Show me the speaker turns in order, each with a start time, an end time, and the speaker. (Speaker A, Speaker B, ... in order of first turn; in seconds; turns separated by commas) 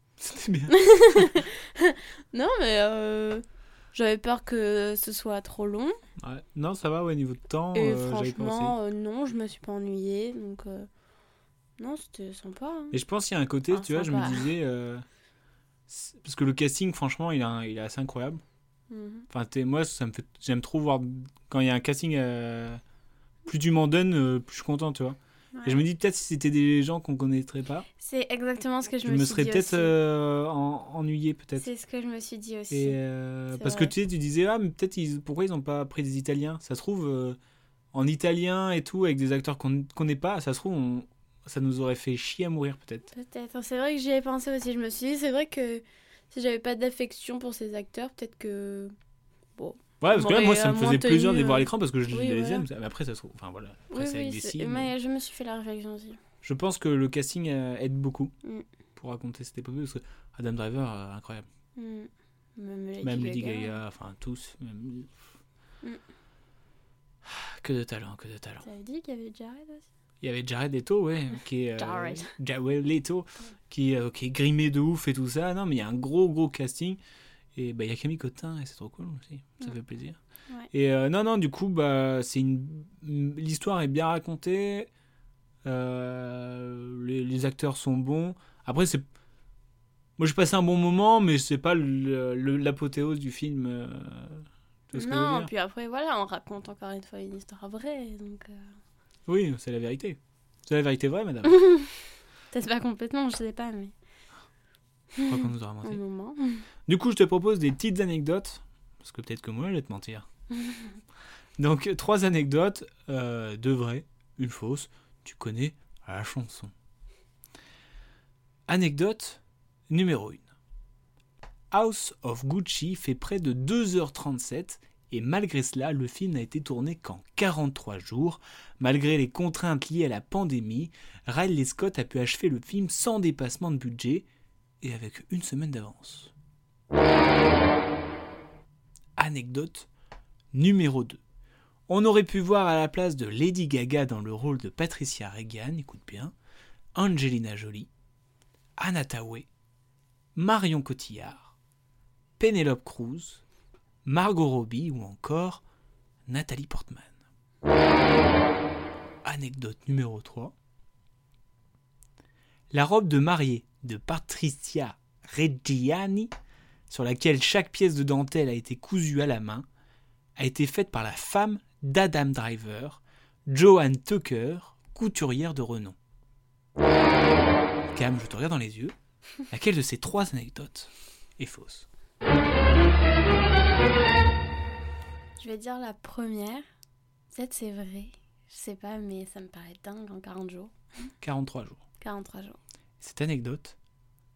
Speaker A: 0.2-1.3, Speaker B: 0.7-6.0, Speaker A: 6.2-8.8, Speaker B: 7.7-10.9, Speaker B: 11.8-13.0, Speaker A: 12.9-15.0, Speaker B: 13.7-14.5, Speaker A: 15.9-18.4, Speaker B: 18.9-19.3, Speaker A: 19.3-22.8, Speaker A: 23.4-27.9, Speaker B: 25.5-25.8, Speaker B: 28.0-29.9, Speaker A: 29.0-31.7, Speaker B: 31.6-33.0, Speaker A: 32.7-37.4, Speaker B: 33.5-33.9, Speaker A: 37.9-43.1, Speaker B: 43.1-48.9, Speaker B: 49.6-52.6, Speaker A: 50.0-54.9, Speaker B: 53.9-56.2, Speaker A: 56.4-58.3, Speaker A: 59.0-61.5, Speaker B: 61.8-63.7, Speaker A: 63.0-65.2, Speaker A: 67.2-68.6, Speaker B: 68.6-69.9, Speaker A: 70.2-77.0, Speaker B: 71.8-72.3, Speaker A: 77.5-80.2, Speaker A: 80.7-84.9, Speaker A: 85.6-89.0, Speaker A: 90.2-95.5, Speaker B: 94.9-98.7, Speaker A: 99.2-101.6, Speaker B: 101.5-101.9, Speaker B: 102.5-103.9, Speaker B: 105.2-106.6, Speaker A: 105.2-106.0, Speaker A: 106.9-110.2, Speaker B: 110.5-111.0, Speaker A: 111.6-116.7, Speaker A: 118.7-120.5, Speaker A: 121.7-134.2, Speaker A: 134.8-136.3, Speaker A: 139.2-139.9, Speaker A: 140.5-141.2, Speaker A: 141.9-146.3, Speaker A: 146.9-147.9, Speaker A: 148.8-149.5, Speaker A: 150.3-151.5, Speaker A: 152.4-153.4, Speaker A: 154.0-155.6, Speaker A: 156.2-157.1, Speaker A: 159.2-160.5, Speaker A: 162.7-166.3, Speaker A: 166.9-169.7, Speaker A: 170.3-175.9, Speaker A: 177.9-178.9, Speaker A: 179.5-181.8, Speaker B: 185.4-186.6, Speaker B: 187.3-190.7, Speaker A: 191.2-191.8, Speaker B: 192.0-192.6, Speaker A: 193.0-193.8